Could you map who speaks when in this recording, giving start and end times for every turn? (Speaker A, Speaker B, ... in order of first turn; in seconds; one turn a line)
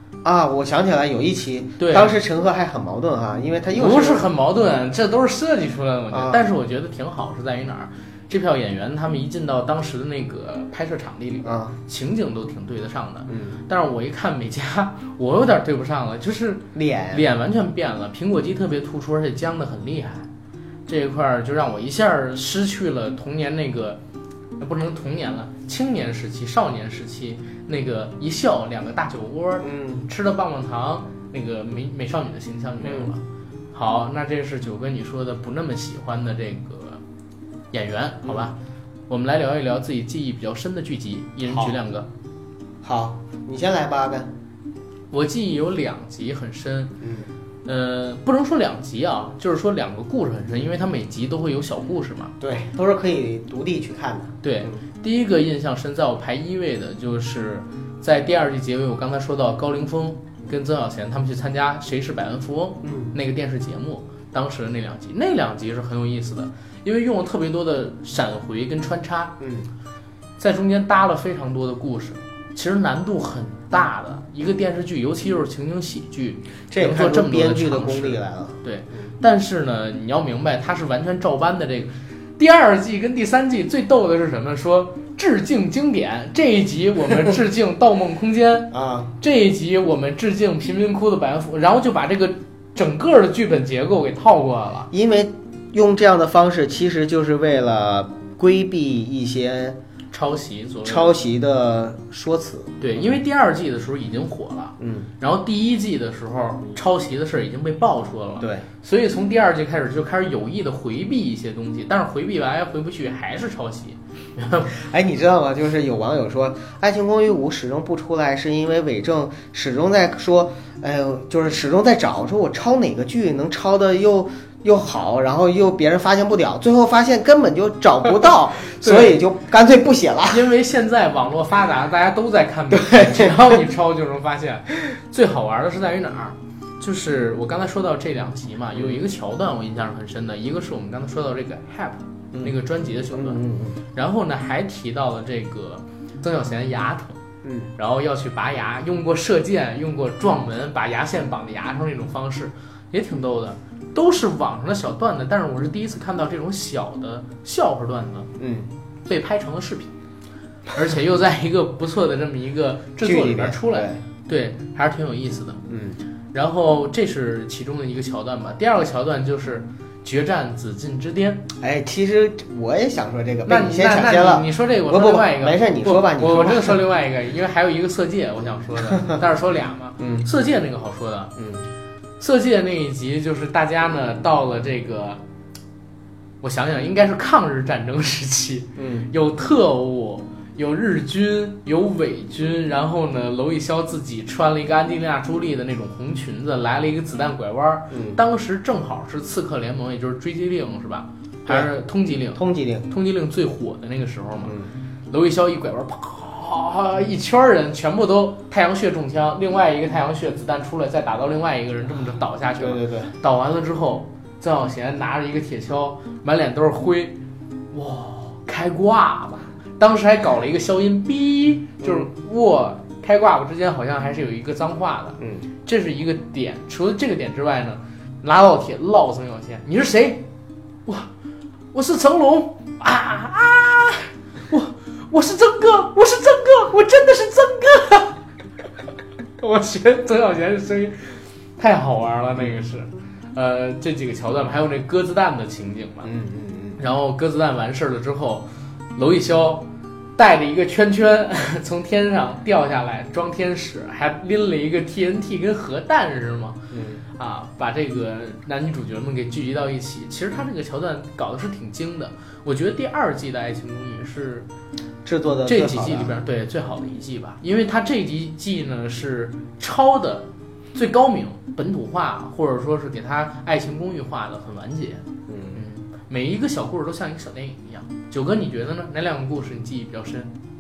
Speaker A: 0.2-4.3
Speaker B: 1.8-2.1
Speaker B: 3.7-20.3
Speaker A: 6.1-6.4
Speaker A: 11.4-11.7
Speaker A: 13.3-13.6
Speaker A: 16.8-17.2
Speaker B: 20.9-24.0
Speaker B: 24.6-37.0
Speaker A: 29.6-30.1
Speaker A: 32.8-33.1
Speaker B: 37.7-38.6
Speaker B: 39.1-42.1
Speaker A: 41.5-41.7
Speaker A: 42.8-44.3
Speaker B: 45.1-47.0
Speaker A: 47.0-47.3
Speaker B: 47.6-52.3
Speaker A: 52.4-54.8
Speaker B: 54.4-69.4
Speaker A: 62.8-63.1
Speaker A: 69.4-69.7
Speaker B: 70.4-94.9
Speaker A: 76.7-78.6
Speaker A: 88.7-89.1
Speaker A: 94.9-99.8
Speaker B: 100.1-101.1
Speaker A: 100.8-103.2
Speaker B: 102.8-114.8
Speaker A: 104.8-105.1
Speaker A: 108.4-108.7
Speaker A: 114.7-130.5
Speaker B: 128.8-129.2
Speaker B: 130.3-143.4
Speaker A: 132.7-133.6
Speaker A: 138.8-139.0
Speaker A: 143.1-143.8
Speaker B: 143.9-147.2
Speaker A: 147.4-147.7
Speaker B: 147.8-158.3
Speaker A: 158.4-158.7
Speaker B: 159.1-159.9
Speaker B: 160.7-165.6
Speaker A: 163.0-164.0
Speaker A: 165.7-166.0
Speaker B: 166.3-171.5
Speaker A: 171.6-176.8
Speaker B: 173.5-181.3
Speaker A: 180.0-180.3
Speaker A: 181.4-181.7
Speaker B: 182.2-185.2
Speaker B: 186.4-204.6
Speaker A: 188.8-189.1
Speaker A: 197.9-198.2
Speaker A: 202.3-202.9
Speaker A: 204.4-204.7
Speaker B: 205.1-217.2
Speaker A: 212.6-213.1
Speaker B: 217.7-230.2
Speaker A: 221.8-222.1
Speaker A: 225.2-225.4
Speaker B: 231.7-238.2
Speaker B: 239.4-246.1
Speaker A: 246.0-246.8
Speaker B: 246.8-256.6
Speaker A: 256.7-257.0
Speaker B: 257.2-264.5
Speaker A: 265.1-266.2
Speaker B: 265.5-280.3
Speaker A: 275.3-275.6